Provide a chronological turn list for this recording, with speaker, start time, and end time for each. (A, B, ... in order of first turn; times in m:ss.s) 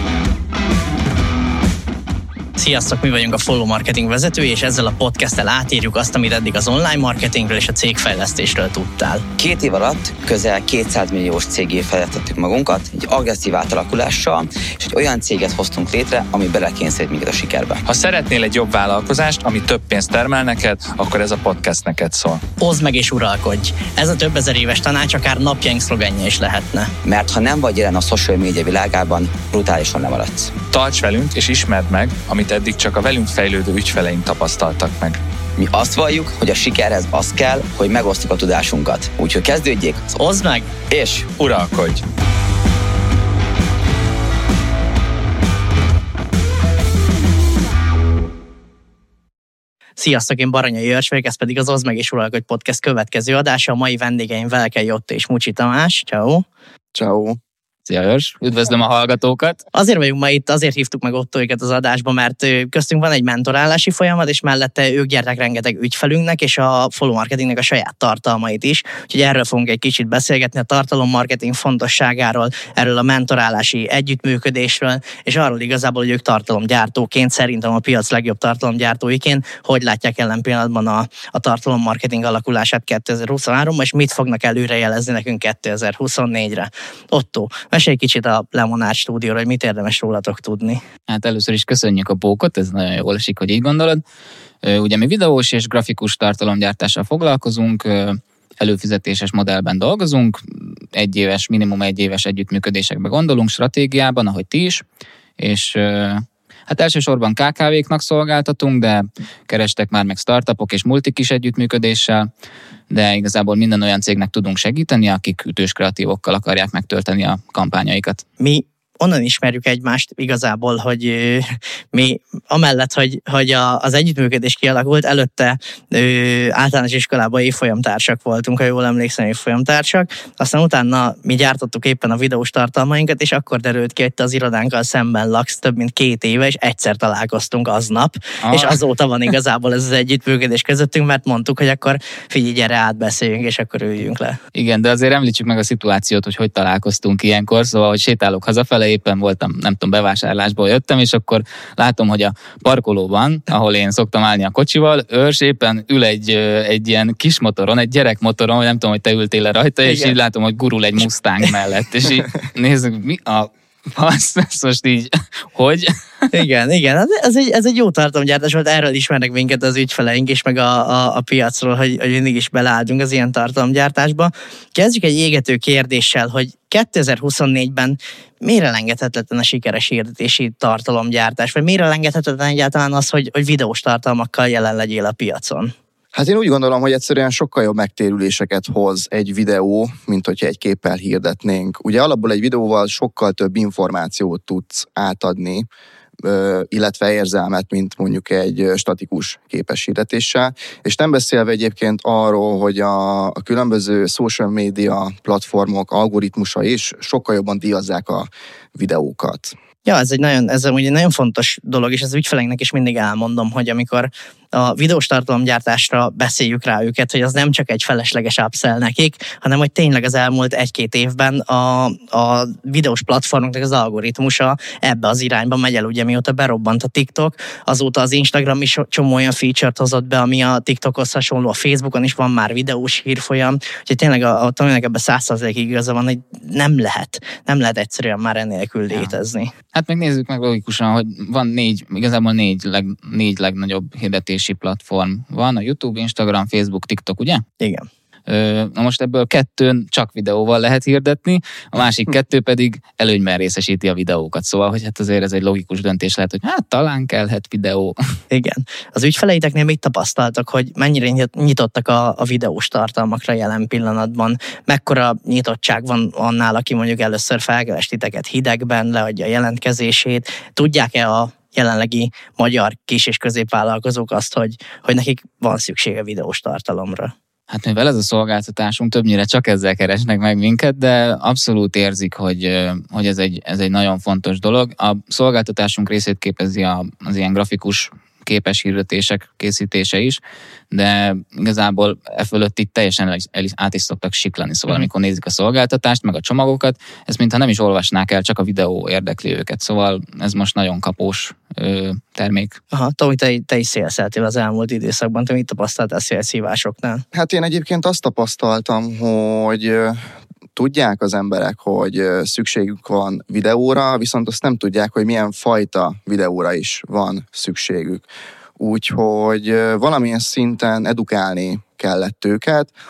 0:02.6-0:09.2 A
0:09.4-0:17.8 B
0:17.8-0:22.4 C
0:22.6-0:26.9 A
0:27.0-0:30.6 B
0:30.7-0:35.2 C
0:35.6-0:40.1 B
0:40.2-0:40.7 A
0:40.9-0:41.3 B
0:41.3-0:42.0 C
0:50.0-0:56.4 A
0:56.9-0:57.4 D
0:57.9-0:59.6 E
0:59.7-1:30.8 A
1:31.1-1:34.0 E
1:34.6-1:44.8 E
1:45.4-1:52.3 E
1:52.9-1:58.2 E
1:58.4-2:24.4 A
2:18.4-2:18.8 E
2:24.5-2:45.9 E
2:39.8-2:40.2 A
2:46.3-3:05.7 A
3:06.1-3:15.7 D
3:16.2-3:29.5 D
3:29.8-3:59.5 A
3:59.7-4:07.4 E
4:07.6-4:07.8 A
4:08.3-4:18.0 E
4:18.3-4:37.1 A
4:37.5-4:50.2 E
4:50.7-5:02.6 E
5:02.7-5:07.0 A
5:07.1-5:10.0 D
5:10.5-5:18.0 D
5:18.6-5:22.7 D